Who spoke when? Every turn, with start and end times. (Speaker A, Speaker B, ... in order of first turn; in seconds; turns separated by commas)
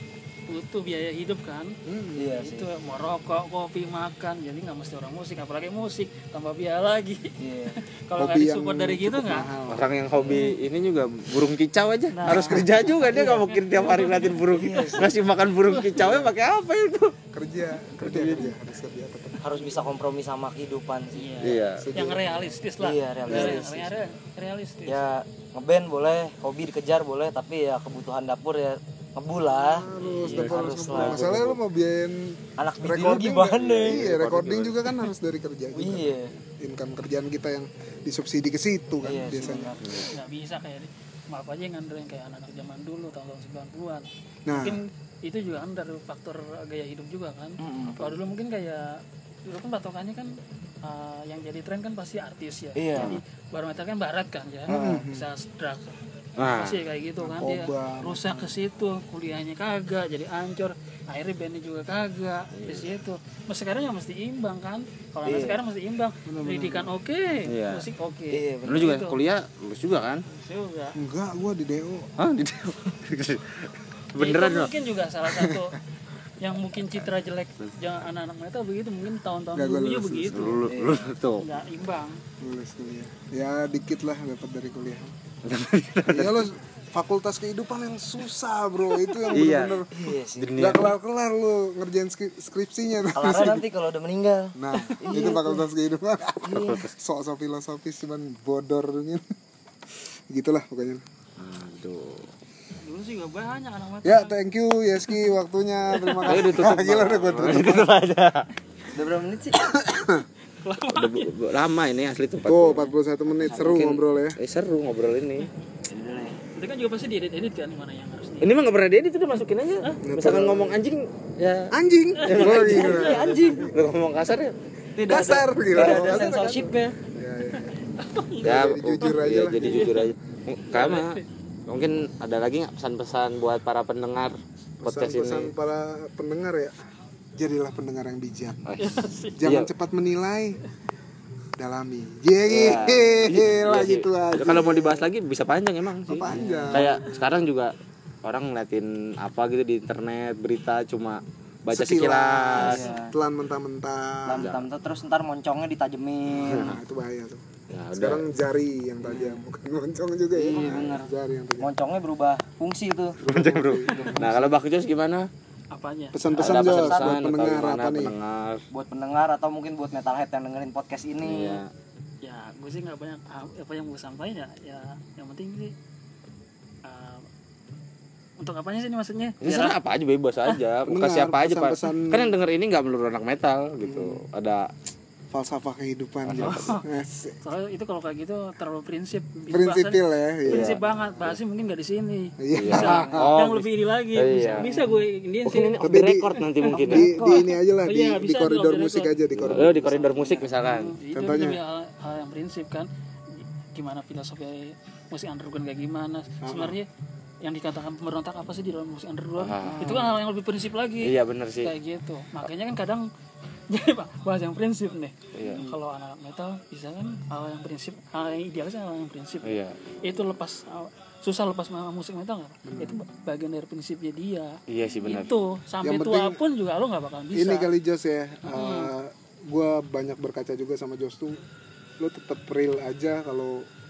Speaker A: 0.5-1.8, Speaker B: 1.8-2.4, Speaker C: 2.1-2.7, Speaker A: 2.4-9.5, Speaker C: 7.4-7.8, Speaker B: 8.2-9.8, Speaker D: 9.7-17.1, Speaker C: 10.1-10.4, Speaker A: 10.2-10.5, Speaker A: 12.1-15.0, Speaker B: 12.3-12.7, Speaker C: 13.1-13.4, Speaker C: 14.5-15.1, Speaker C: 15.9-16.3, Speaker B: 17.3-19.8, Speaker D: 18.0-18.5, Speaker C: 19.4-21.4, Speaker A: 21.1-25.1, Speaker D: 21.4-21.9, Speaker B: 21.8-22.4, Speaker C: 22.3-23.9, Speaker B: 23.3-23.6, Speaker C: 24.9-31.4, Speaker B: 29.5-39.8, Speaker A: 29.9-30.6, Speaker D: 30.9-31.5, Speaker C: 32.6-34.1, Speaker D: 33.5-34.9, Speaker C: 35.7-36.3, Speaker C: 39.0-40.0, Speaker A: 39.4-55.9, Speaker D: 39.8-40.1, Speaker B: 44.5-44.8, Speaker C: 47.6-48.0, Speaker C: 52.8-53.2, Speaker B: 54.7-55.3, Speaker C: 54.7-55.0, Speaker D: 56.4-56.8, Speaker A: 56.5-69.2, Speaker B: 57.2-58.5, Speaker D: 62.5-62.9, Speaker C: 65.2-65.6, Speaker B: 66.2-66.9, Speaker D: 67.5-67.9, Speaker C: 68.3-69.0, Speaker D: 68.7-70.2, Speaker A: 70.3-71.0, Speaker B: 70.9-72.1, Speaker D: 72.2-74.7, Speaker A: 74.2-75.8, Speaker A: 76.4-80.7, Speaker B: 79.5-80.6, Speaker D: 80.3-81.4, Speaker C: 80.7-81.1, Speaker A: 81.4-82.2, Speaker B: 82.4-85.1, Speaker D: 85.4-86.5, Speaker B: 86.1-93.7, Speaker D: 89.3-89.8, Speaker C: 89.9-90.8, Speaker D: 90.4-90.9, Speaker C: 93.1-95.6, Speaker B: 94.5-99.2, Speaker C: 96.4-96.8, Speaker D: 96.5-96.9, Speaker B: 100.3-101.0, Speaker D: 101.4-102.3, Speaker A: 102.8-104.3, Speaker B: 104.0-107.9, Speaker D: 106.2-108.5, Speaker C: 108.9-109.6, Speaker B: 109.5-110.3, Speaker A: 110.6-111.3, Speaker D: 110.9-112.9, Speaker B: 112.5-114.4, Speaker C: 113.3-113.9, Speaker D: 113.6-115.5, Speaker C: 115.9-116.4, Speaker A: 116.5-118.5, Speaker D: 118.4-124.5, Speaker B: 120.0-120.8, Speaker B: 121.7-123.5, Speaker A: 122.2-122.5, Speaker C: 122.4-123.7, Speaker C: 125.0-127.0, Speaker B: 125.0-127.8, Speaker D: 125.7-126.3, Speaker A: 128.0-129.9, Speaker B: 128.4-130.1, Speaker D: 128.4-135.5, Speaker A: 130.7-131.2, Speaker B: 134.8-136.7, Speaker B: 137.4-138.6, Speaker D: 138.6-139.7, Speaker A: 138.8-139.4, Speaker B: 139.4-140.6, Speaker B: 141.6-145.1, Speaker D: 142.5-147.7, Speaker B: 146.1-147.0, Speaker C: 146.3-146.9, Speaker D: 148.2-152.8, Speaker B: 151.7-154.5, Speaker C: 152.6-153.1, Speaker C: 154.2-156.8, Speaker D: 154.3-154.6, Speaker D: 156.3-156.8, Speaker B: 156.5-157.4, Speaker D: 157.7-158.2, Speaker B: 157.9-161.7, Speaker C: 159.0-159.4, Speaker C: 160.3-163.2, Speaker D: 160.6-160.9, Speaker B: 163.2-164.0, Speaker D: 163.2-165.3, Speaker C: 163.9-164.6, Speaker A: 165.7-166.2, Speaker B: 166.1-168.1, Speaker D: 166.3-168.6, Speaker C: 166.4-167.2, Speaker C: 168.7-171.6, Speaker D: 171.2-171.7, Speaker A: 172.2-175.7, Speaker A: 176.8-177.2, Speaker A: 178.4-179.8, Speaker D: 179.4-184.7, Speaker B: 180.9-182.3, Speaker B: 183.8-184.2, Speaker B: 185.3-187.4, Speaker D: 186.2-186.8, Speaker A: 186.4-186.8, Speaker A: 187.4-195.8, Speaker B: 189.5-190.8, Speaker D: 190.5-191.3, Speaker B: 192.4-193.3, Speaker D: 192.6-194.7, Speaker D: 195.4-197.1, Speaker B: 195.8-199.9, Speaker A: 196.7-206.9, Speaker C: 196.7-197.5, Speaker D: 199.4-201.0, Speaker B: 201.1-201.6, Speaker B: 206.4-206.8, Speaker A: 207.4-213.1, Speaker D: 209.4-210.0, Speaker C: 209.7-210.0, Speaker D: 211.0-211.7, Speaker A: 213.7-227.7, Speaker D: 215.3-215.7, Speaker D: 219.4-219.8, Speaker B: 222.6-223.0, Speaker D: 224.7-225.3, Speaker B: 225.8-226.4, Speaker B: 227.3-231.4, Speaker A: 228.4-228.9, Speaker B: 232.0-233.7